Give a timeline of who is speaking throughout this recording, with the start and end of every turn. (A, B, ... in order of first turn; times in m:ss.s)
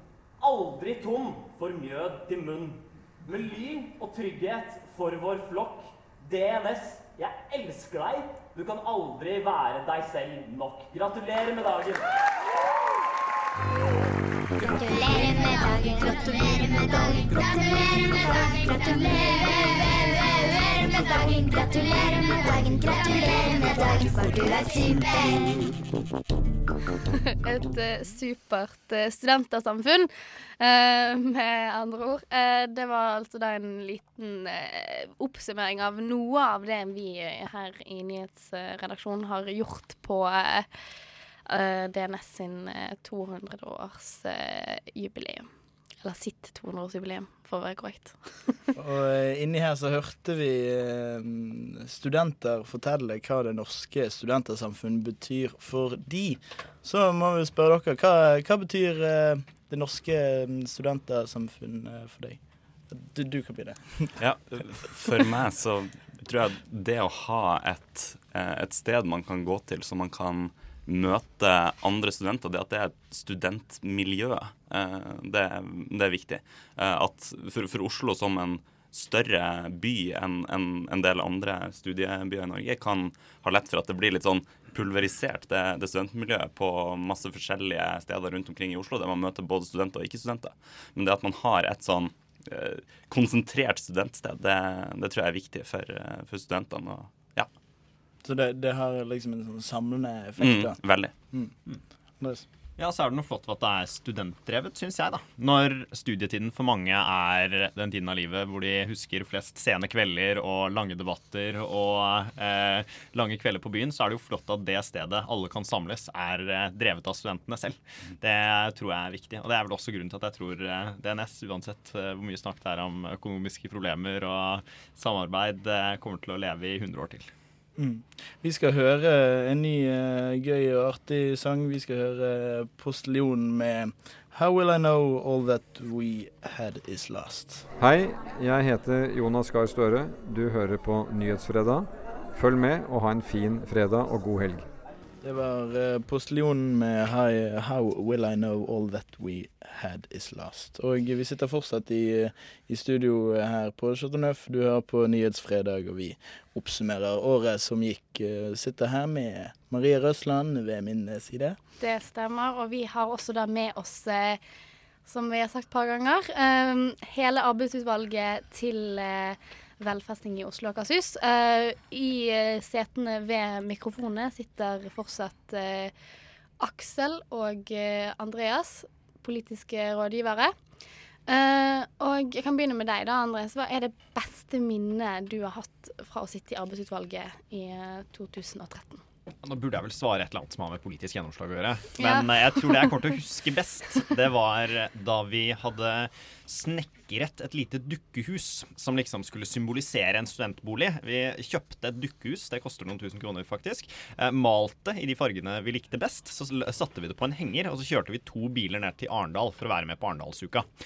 0:00.4-0:00.7 A
0:01.7-0:02.1 A
0:03.8-0:05.8 A
0:06.3-0:11.8 A
0:14.6-0:25.6 B
0:27.4-0:40.7 C
0:41.5-0:45.5 C
0:46.0-0:48.6 C
0:48.8-1:04.1 D
1:04.2-1:37.5 E
1:38.2-1:40.8 D
1:40.4-1:41.1 E
1:42.2-1:42.4 D
1:42.8-2:07.3 F
2:07.8-2:17.6 D
2:17.8-2:24.7 G
2:25.2-2:41.6 D
2:41.8-2:44.4 C
2:45.0-2:55.9 C
2:56.6-3:00.5 C
3:01.3-3:09.0 C
3:09.4-3:30.7 F
3:12.0-3:12.4 C